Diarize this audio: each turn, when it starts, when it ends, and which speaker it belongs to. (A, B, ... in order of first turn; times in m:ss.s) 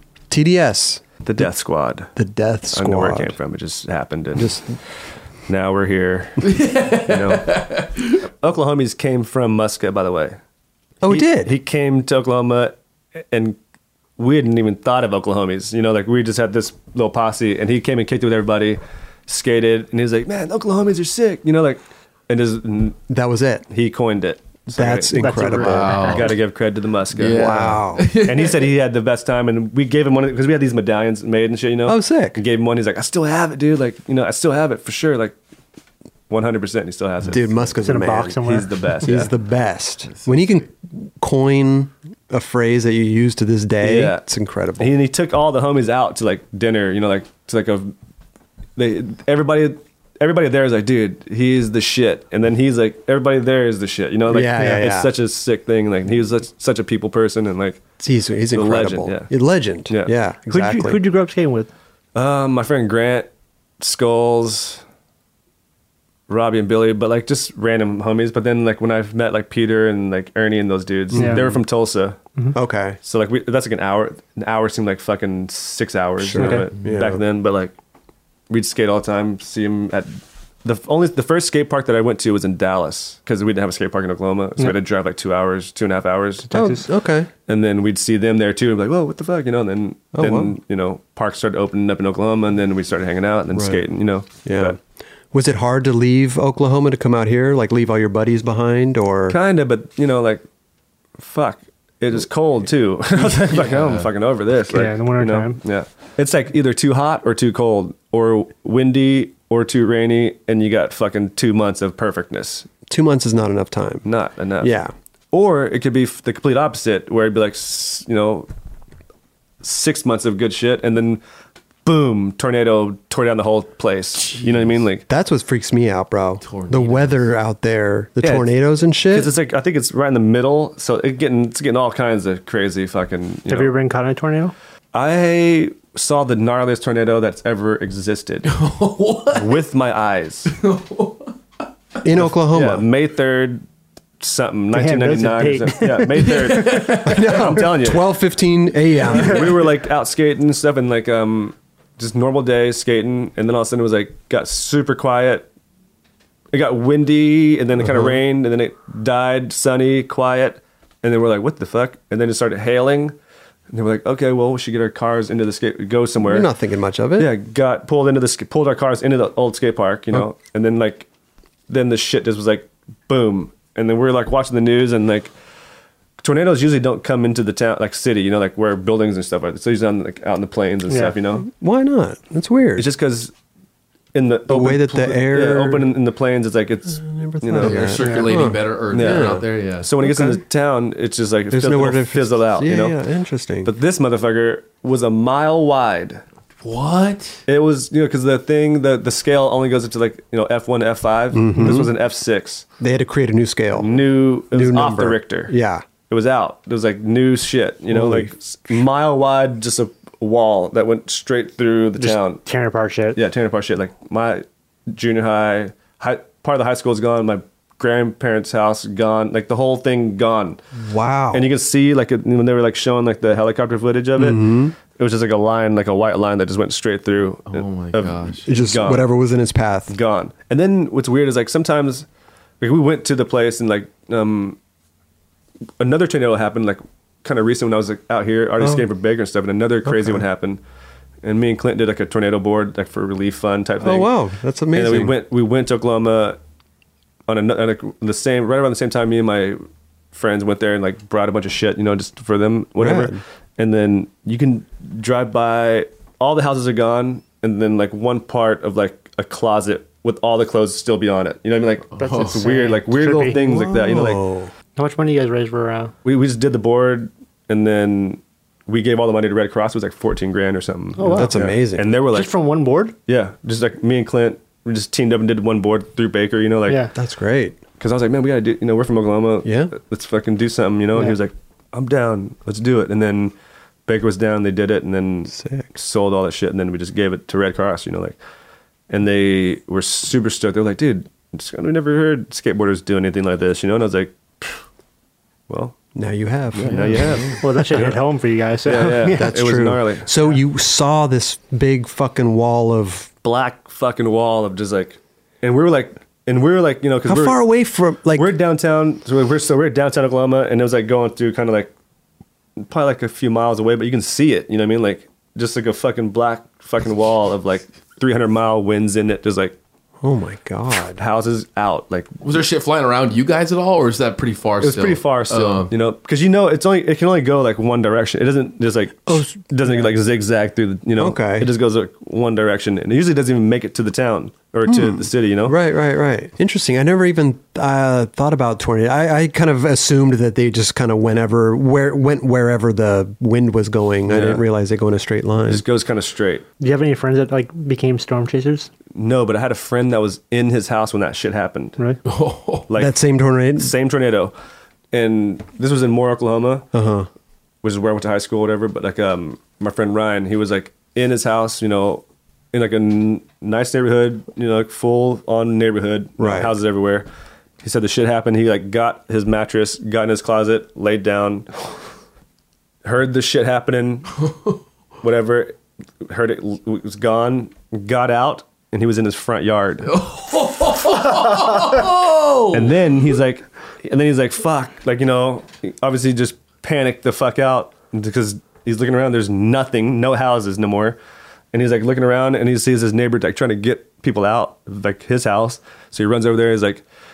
0:00.3-0:01.5 A
0:01.2-0:02.1 B
0:02.2-0:03.4 A
0:02.7-0:04.6 B
0:04.4-0:04.7 A
0:05.5-0:07.6 B
0:06.4-0:08.2 C
0:08.2-0:10.4 B
0:11.0-0:11.5 A
0:11.1-0:12.8 B
0:13.3-0:13.6 B
0:14.2-0:23.0 B
0:23.1-0:23.7 A
0:23.7-0:35.4 B
0:24.7-0:26.3 A
0:25.2-0:26.3 D
0:25.5-0:26.4 C
0:27.2-0:28.7 C
0:27.3-0:28.1 A
0:31.9-0:32.4 A
0:36.3-0:37.7 B
0:37.3-0:38.4 A
0:37.8-0:38.7 D
0:38.4-0:39.3 B
0:39.0-0:44.9 A
0:40.1-0:40.6 C
0:43.8-0:44.3 B
0:44.8-0:47.9 B
0:48.8-0:57.8 B
0:54.3-0:55.1 A
0:58.0-1:01.0 A
0:58.5-0:59.3 B
0:59.9-1:00.2 B
1:00.5-1:01.7 D
1:02.2-1:04.8 B
1:06.3-1:12.2 B
1:11.1-1:11.6 A
1:11.1-1:11.4 D
1:12.5-1:13.0 A
1:13.0-1:17.7 B
1:16.2-1:17.2 A
1:16.4-1:16.7 D
1:18.5-1:26.8 B
1:26.5-1:26.8 D
1:26.5-1:27.3 A
1:27.5-1:34.8 B
1:30.1-1:30.5 A
1:33.5-1:33.8 A
1:34.4-1:34.8 A
1:35.3-1:39.4 A
1:39.3-1:40.4 B
1:41.2-1:52.7 B
1:43.5-1:44.1 C
1:44.7-1:45.6 D
1:52.9-1:54.0 A
1:54.0-1:54.8 B
1:54.6-1:54.9 A
1:55.3-1:58.5 B
1:59.6-2:01.2 B
2:01.8-2:05.0 B
2:04.2-2:04.8 C
2:05.1-2:09.3 A
2:06.4-2:07.3 C
2:08.2-2:13.7 B
2:13.5-2:14.5 D
2:14.9-2:18.5 B
2:18.5-2:19.6 C
2:19.3-2:20.5 B
2:20.5-2:21.3 C
2:22.0-2:22.9 A
2:22.2-2:23.6 B
2:24.2-2:28.1 B
2:24.7-2:26.3 D
2:26.2-2:27.4 C
2:26.8-2:29.5 A
2:29.1-2:35.5 B
2:36.5-2:43.2 B
2:37.8-2:38.2 A
2:43.7-2:46.5 B
2:46.2-2:47.3 A
2:47.2-2:51.1 B
2:51.7-2:55.3 B
2:56.2-3:01.5 B
3:00.9-3:01.2 D
3:01.4-3:02.9 A
3:02.8-3:03.3 B
3:04.1-3:08.3 B
3:04.5-3:05.9 A
3:06.9-3:09.5 A
3:07.6-3:09.9 C
3:08.9-3:13.0 B
3:10.0-3:10.4 A
3:11.5-3:13.7 A
3:13.6-3:16.2 B
3:16.6-3:17.4 C
3:17.5-3:22.7 B
3:21.3-3:21.9 A
3:22.8-3:25.8 A
3:23.8-3:25.5 B
3:26.1-3:32.4 B
3:27.9-3:28.8 A
3:32.0-3:33.2 D
3:33.2-3:40.6 B
3:40.7-3:41.5 A
3:41.3-3:49.1 B
3:44.2-3:44.8 A
3:47.5-3:48.5 C
3:48.5-3:49.9 A
3:49.9-3:52.1 B
3:52.6-3:54.6 B
3:55.8-4:00.6 B
3:58.6-3:58.9 A
3:59.8-4:00.2 A
4:01.2-4:04.1 B
4:03.8-4:05.2 A
4:04.7-4:06.4 B
4:07.3-4:09.6 B
4:10.1-4:24.2 B
4:12.8-4:13.2 A
4:21.9-4:22.4 C
4:22.0-4:23.4 D
4:23.3-4:24.5 A
4:24.8-4:25.9 D
4:26.0-4:32.3 B
4:31.0-4:31.4 D
4:31.1-4:31.9 A
4:32.0-4:33.0 D
4:33.1-4:36.9 B
4:36.7-4:36.9 D
4:36.9-4:37.6 A
4:37.8-4:43.3 B
4:39.4-4:39.7 A
4:43.9-4:48.2 B
4:45.3-4:45.7 A
4:48.9-4:54.6 B
4:55.5-4:55.8 B
4:56.0-4:58.0 A
4:56.5-4:58.0 B
4:56.6-4:57.4 C
4:57.4-4:59.4 D
4:58.6-5:00.1 B
4:58.7-5:03.1 A
5:03.2-5:07.5 B
5:07.0-5:08.4 A
5:08.1-5:11.7 B
5:12.6-5:19.6 B
5:20.0-5:21.0 A
5:20.9-5:22.1 B
5:22.2-5:25.7 C
5:24.6-5:35.6 B
5:29.1-5:29.9 A
5:31.0-5:31.5 A
5:34.7-5:45.6 A
5:44.1-5:44.5 B
5:45.5-5:46.5 B
5:46.6-5:48.7 D
5:49.0-5:51.8 B
5:52.0-5:52.7 C
5:52.7-5:53.0 B
5:52.8-5:53.7 A
5:53.6-5:54.3 B
5:54.9-5:56.7 B
5:56.7-5:57.1 A
5:57.6-6:07.1 B
6:06.2-6:06.5 A
6:07.6-6:11.5 B
6:12.8-6:14.2 B
6:15.0-6:20.0 B
6:19.8-6:22.8 C
6:22.5-6:31.0 B
6:31.5-6:36.8 B